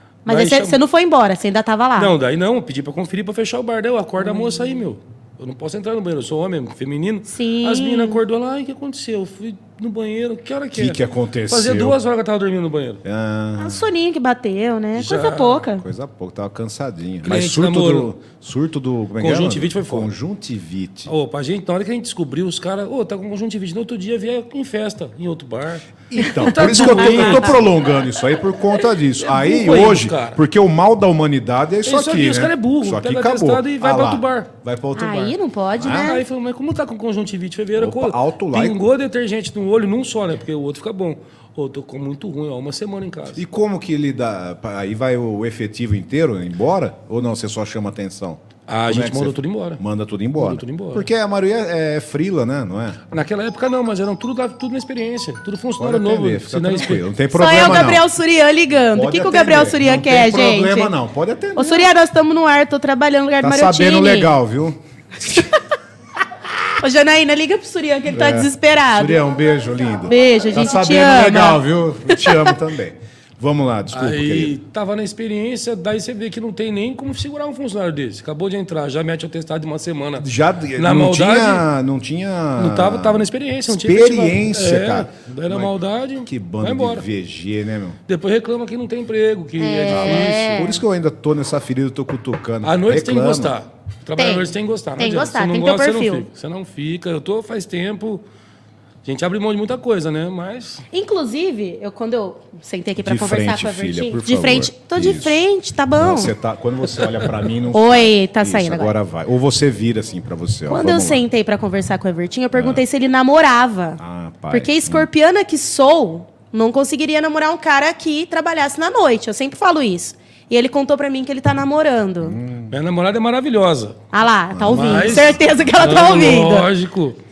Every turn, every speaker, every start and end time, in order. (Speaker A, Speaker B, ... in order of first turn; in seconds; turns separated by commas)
Speaker A: 0.3-0.8, Speaker B: 0.3-2.1, Speaker A: 2.0-13.0, Speaker B: 4.2-4.7, Speaker B: 7.3-8.2, Speaker C: 10.7-12.0, Speaker C: 13.0-13.9, Speaker B: 13.6-15.8, Speaker A: 15.0-15.7, Speaker C: 15.8-21.1, Speaker A: 17.2-18.1, Speaker A: 19.2-20.1, Speaker A: 21.1-27.7, Speaker C: 26.1-36.2, Speaker B: 26.4-27.5, Speaker A: 29.2-30.4, Speaker A: 31.9-34.5, Speaker B: 35.0-36.2, Speaker A: 35.9-43.4, Speaker C: 37.8-38.8, Speaker C: 43.4-53.0, Speaker A: 48.7-49.8, Speaker A: 50.4-51.1, Speaker A: 53.1-57.1, Speaker C: 55.8-58.1, Speaker B: 57.3-60.9, Speaker C: 58.9-61.9, Speaker B: 61.6-64.4, Speaker C: 63.4-65.5, Speaker B: 66.8-69.2, Speaker C: 68.1-74.6, Speaker B: 70.1-72.5, Speaker A: 73.9-81.7, Speaker C: 80.2-88.0, Speaker A: 82.6-87.1, Speaker A: 88.1-90.6, Speaker B: 89.6-90.8, Speaker C: 89.9-93.5, Speaker A: 92.6-98.2, Speaker B: 94.2-96.3, Speaker A: 99.0-100.8, Speaker B: 100.9-106.3, Speaker C: 103.0-111.2, Speaker B: 107.7-108.9, Speaker B: 110.7-122.4, Speaker C: 112.5-112.8, Speaker C: 114.0-115.1, Speaker C: 122.2-122.8, Speaker A: 122.7-124.0, Speaker B: 124.1-126.7, Speaker C: 124.5-125.8, Speaker A: 124.7-127.2